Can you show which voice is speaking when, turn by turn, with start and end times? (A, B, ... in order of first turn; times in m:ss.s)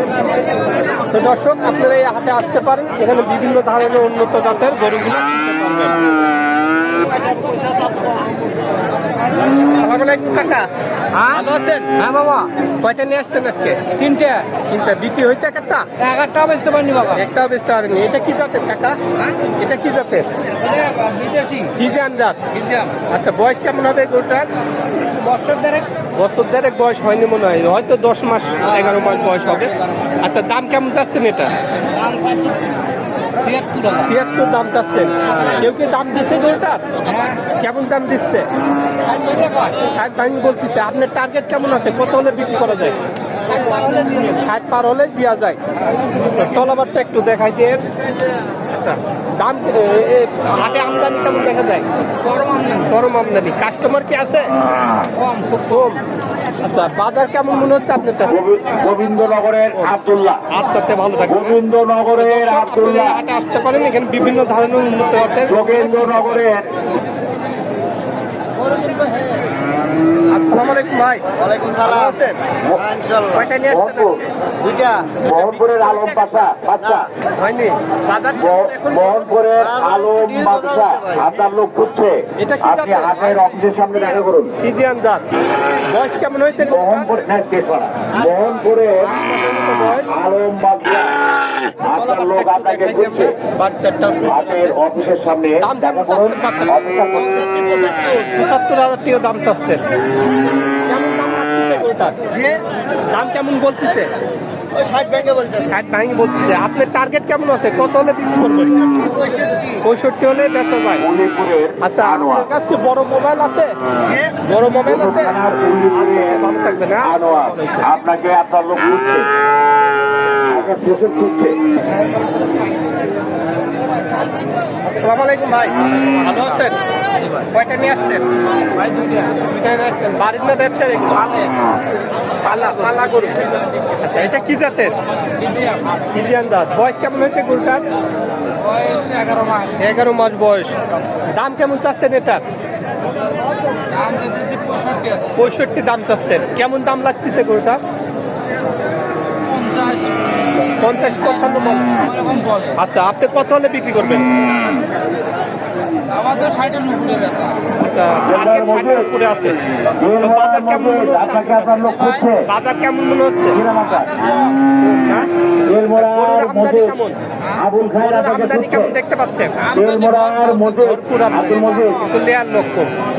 0:01.0-0:06.0 A
0:09.6-0:13.9 A
0:11.2-0:11.4 B
0:12.0-0:12.5 B
0:14.0-0:14.5 B
0:14.6-0:15.9 A
0:16.0-0:17.2 B
0:17.1-0:20.3 A
0:20.6-0:21.7 B
0:21.7-0:24.5 A
0:22.5-0:22.9 B
0:25.2-0:25.9 B
0:26.1-0:31.6 A
0:29.0-0:29.7 B
0:31.9-0:32.6 B
0:33.4-0:34.1 B
0:33.9-0:36.8 A
0:37.0-0:37.4 B
0:37.4-0:38.5 A
0:39.1-0:39.7 B
0:39.7-0:43.0 A
0:43.5-0:44.4 B
0:44.2-0:47.8 A
0:48.7-0:51.9 A
0:52.3-0:52.9 B
0:52.8-0:54.6 A
0:55.2-0:55.7 B
0:55.6-0:56.0 A
0:56.6-0:58.4 A
0:58.3-1:00.4 C
1:00.5-1:01.6 A
1:01.3-1:03.2 C
1:02.2-1:06.5 A
1:05.5-1:06.7 C
1:10.3-1:11.2 A
1:11.4-1:12.2 D
1:11.8-1:12.4 A
1:12.7-1:13.5 D
1:13.3-1:14.2 A
1:13.6-1:14.2 C
1:14.6-1:15.2 D
1:15.2-1:17.1 C
1:15.2-1:16.3 A
1:16.8-1:17.1 D
1:17.3-1:19.3 A
1:18.4-1:24.6 C
1:19.6-1:21.3 D
1:22.4-1:23.4 A
1:24.6-1:25.2 A
1:25.9-1:27.1 A
1:26.7-1:29.1 C
1:29.0-1:30.2 A
1:30.1-1:33.4 C
1:31.9-1:34.8 A
1:34.3-1:37.4 C
1:35.6-1:37.4 A
1:37.4-1:38.1 D
1:38.1-1:39.8 A
1:40.9-1:42.2 A
1:42.3-1:42.7 D
1:43.1-1:44.1 A
1:44.7-1:45.7 D
1:45.7-1:49.0 A
1:48.9-1:49.8 D
1:49.8-1:51.1 A
1:51.0-1:52.5 C
1:51.8-1:53.8 A
1:54.1-1:54.4 D
1:54.4-1:55.4 A
1:54.9-1:59.3 C
1:55.9-1:57.9 A
2:00.4-2:01.6 C
2:04.8-2:06.8 A
2:07.3-2:08.3 A
2:08.8-2:09.3 B
2:09.2-2:11.5 A
2:12.4-2:15.0 A
2:15.4-2:15.9 B
2:15.9-2:17.8 A
2:18.6-2:19.8 B
2:19.8-2:22.4 A
2:23.9-2:25.3 B
2:25.3-2:27.8 A
2:29.5-2:30.2 B
2:30.6-2:32.1 A
2:32.0-2:32.8 B
2:32.7-2:34.4 A
2:36.1-2:37.6 B
2:37.7-2:39.6 A
2:38.1-2:39.1 C
2:40.0-2:42.5 C
2:40.2-2:43.6 A
2:43.5-2:44.2 C
2:43.9-2:44.6 B
2:44.8-2:45.3 A
2:45.7-2:47.0 C
2:45.8-2:47.2 A
2:47.5-2:49.0 C
2:48.0-2:49.6 A
2:49.6-2:50.6 B
2:49.7-2:52.1 C
2:50.6-2:52.9 A